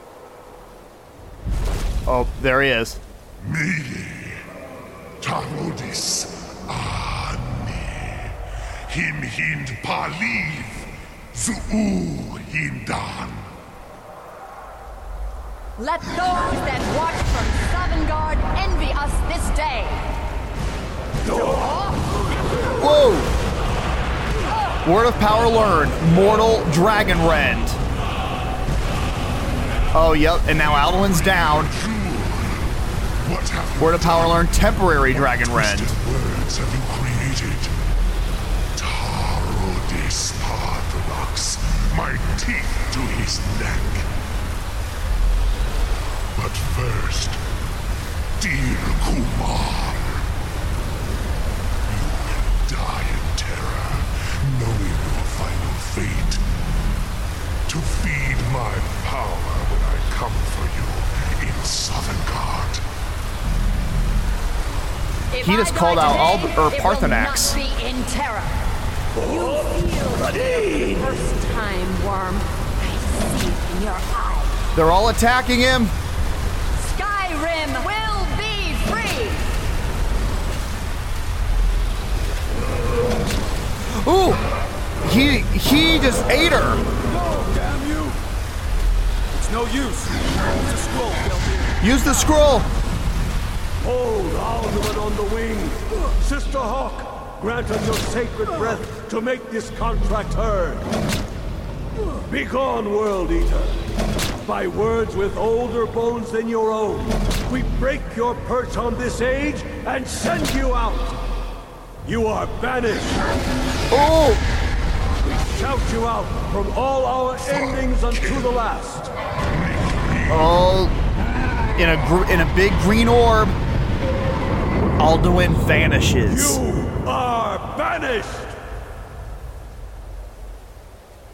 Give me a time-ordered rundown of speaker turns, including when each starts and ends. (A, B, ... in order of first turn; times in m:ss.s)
0:02.1-0:03.0 A
0:03.4-0:04.4 B
0:05.2-0:13.6 B
0:15.8-0:20.0 C
0:21.3-0:22.4 C
0:22.8-0:23.3 A
0:24.5-0:24.8 C
0:24.8-0:27.8 A
0:29.9-0:31.7 A
0:30.9-0:37.9 B
0:33.8-0:36.0 A
0:38.8-0:44.1 B
0:46.3-0:47.4 B
0:48.4-0:50.3 B
0:51.9-0:56.4 B
0:57.7-1:02.8 B
1:05.3-1:08.6 C
1:05.4-1:07.6 A
1:09.2-1:14.7 C
1:09.2-1:11.2 D
1:14.7-1:15.9 A
1:16.8-1:19.5 C
1:24.0-1:24.4 A
1:25.0-1:26.8 A
1:27.0-1:28.2 E
1:29.3-1:32.4 E
1:31.8-1:32.7 A
1:33.8-1:40.9 D
1:42.3-1:43.8 D
1:44.4-1:51.2 D
1:52.0-1:53.2 D
1:53.9-1:54.4 A
1:55.2-1:59.1 D
1:57.4-1:58.5 B
1:59.5-2:00.5 B
2:00.3-2:01.0 A
2:01.8-2:03.6 A
2:05.0-2:06.6 A
2:06.3-2:08.6 D